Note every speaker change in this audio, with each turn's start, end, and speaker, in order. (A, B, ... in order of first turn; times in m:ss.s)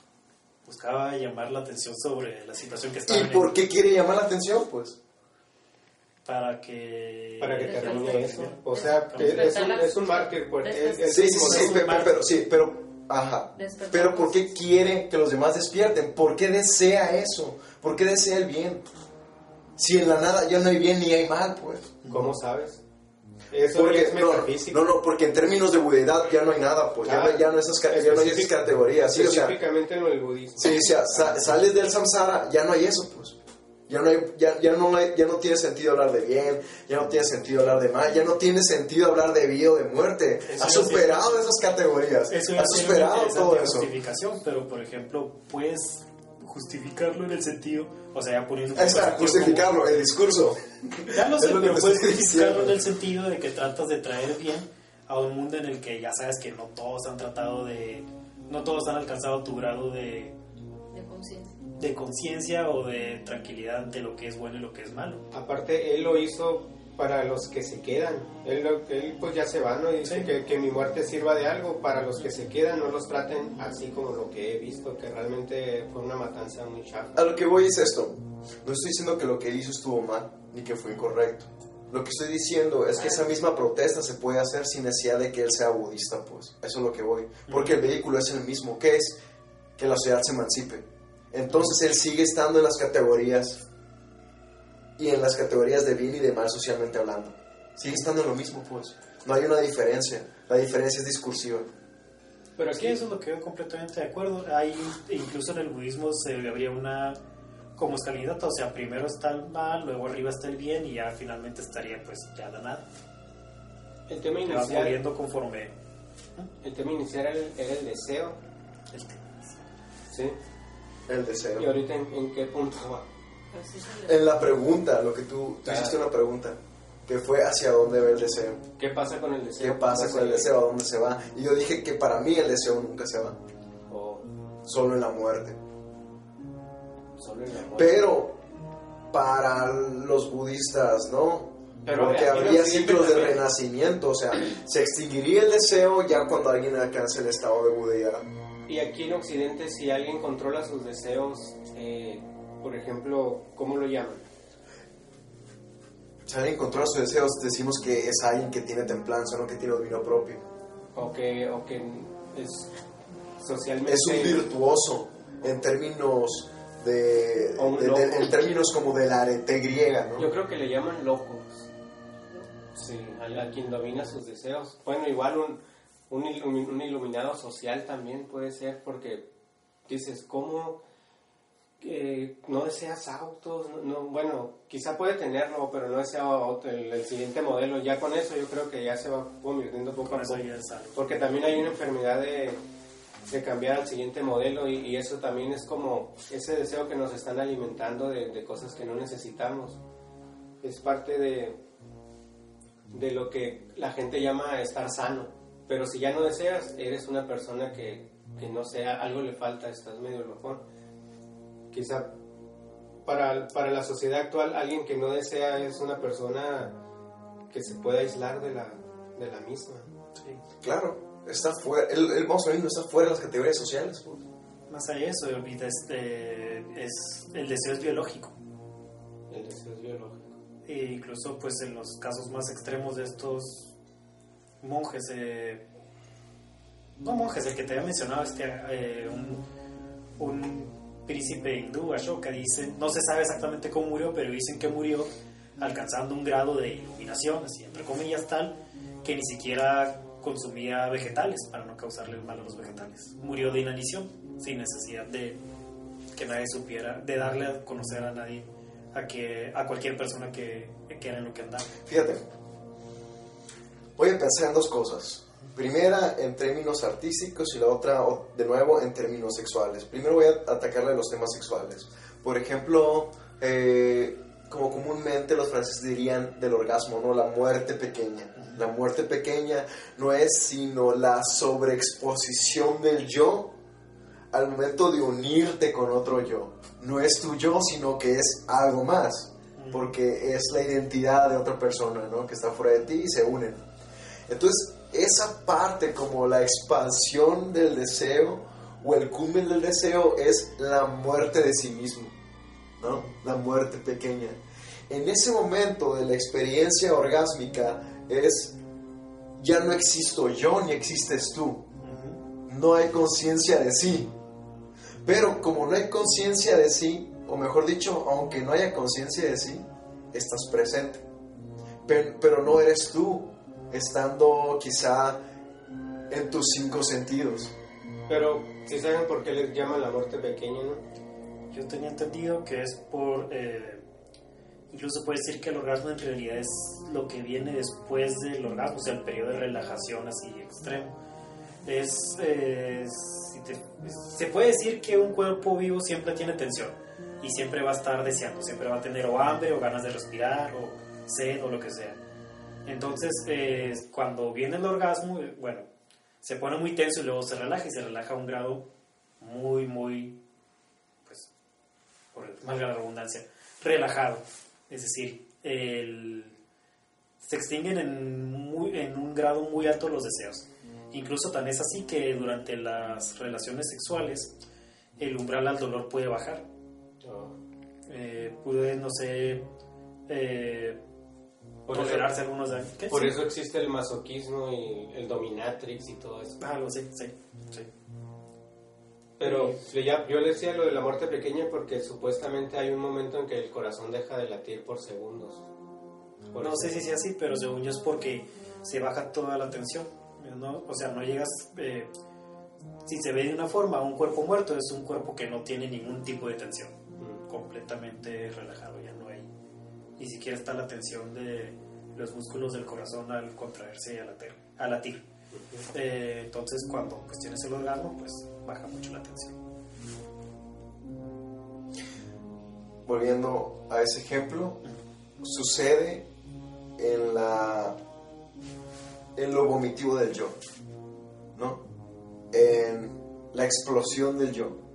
0:00.6-0:03.6 A
0:03.1-0:05.0 B
0:06.2-0:09.6 A
0:07.4-0:12.0 C
0:07.6-0:11.4 D
0:11.1-0:18.8 B
0:11.3-0:12.2 A
0:13.5-0:14.5 D
0:19.8-0:21.9 B
0:22.0-0:22.3 A
0:22.1-0:22.8 C
0:23.5-0:24.9 C
0:23.7-0:29.6 B
0:27.0-0:31.4 C
0:30.6-0:33.4 B
0:33.9-0:43.9 B
0:40.5-0:41.4 A
0:42.3-0:49.8 A
0:48.7-0:52.8 B
0:51.1-1:00.3 A
1:00.9-1:01.5 D
1:01.8-1:05.2 A
1:05.3-1:17.2 C
1:17.2-1:29.2 B
1:27.5-1:27.8 A
1:29.8-1:33.6 B
1:35.0-1:41.7 B
1:42.6-1:43.0 C
1:42.7-1:47.2 A
1:47.8-1:52.8 A
1:54.1-1:55.0 C
1:54.4-1:55.7 A
1:56.6-1:58.4 C
1:58.9-1:59.6 A
2:00.1-2:00.4 C
2:01.1-2:01.7 B
2:01.6-2:03.0 C
2:03.5-2:04.4 D
2:04.0-2:08.6 B
2:05.6-2:06.0 C
2:08.8-2:10.5 C
2:09.6-2:13.4 B
2:13.9-2:14.3 C
2:14.6-2:15.6 B
2:17.2-2:18.1 C
2:17.7-2:18.4 B
2:19.1-2:28.3 B
2:21.8-2:23.4 C
2:28.7-2:34.2 C
2:36.2-2:40.4 B
2:40.9-2:42.7 C
2:43.4-2:44.5 C
2:43.8-2:50.3 B
2:47.6-2:48.4 C
2:50.2-2:51.7 C
2:52.7-2:59.2 C
2:59.9-3:00.8 C
3:01.8-3:12.6 C
3:10.0-3:11.0 A
3:13.3-3:19.8 C
3:20.6-3:21.6 C
3:22.9-3:30.6 C
3:31.7-3:32.1 C
3:33.0-3:36.8 C
3:37.5-3:39.9 C
3:40.6-3:44.2 B
3:44.7-3:48.3 A
3:49.3-3:50.4 C
3:50.6-3:53.7 A
3:54.6-3:55.6 A
3:57.0-3:59.4 A
4:00.2-4:15.4 A
4:16.1-4:21.7 A
4:21.8-4:22.2 B
4:24.0-4:43.5 B
4:44.3-4:53.6 B
4:49.6-4:49.9 A
4:54.3-5:02.1 B
5:02.8-5:08.6 B
5:09.4-5:11.6 B
5:11.8-5:12.2 A
5:12.4-5:14.1 B
5:15.0-5:21.0 B
5:21.8-5:25.2 B
5:26.1-5:27.5 B
5:28.1-5:30.8 C
5:31.5-5:33.8 A
5:34.7-5:40.9 A
5:41.6-5:52.0 A
5:52.6-5:55.6 A
5:56.2-5:58.6 A
5:59.2-6:00.2 A
6:02.1-6:06.3 A
6:07.2-6:14.3 A
6:15.0-6:16.4 A
6:17.0-6:17.4 C
6:17.9-6:19.4 A
6:20.1-6:20.8 A
6:21.6-6:22.1 C
6:21.7-6:23.2 A
6:22.9-6:26.4 C
6:26.4-6:27.7 A
6:29.2-6:35.4 C
6:29.2-6:29.6 A
6:36.3-6:36.7 C
6:36.4-6:41.9 A
6:42.8-6:46.7 A
6:47.0-6:47.2 C
6:47.3-6:49.3 A
6:50.0-6:55.0 A
6:55.3-6:55.7 C
6:55.7-6:59.3 A
7:02.8-7:04.6 B
7:05.2-7:06.0 B
7:06.8-7:07.8 B
7:09.2-7:10.4 B
7:11.3-7:11.6 B
7:12.3-7:14.6 B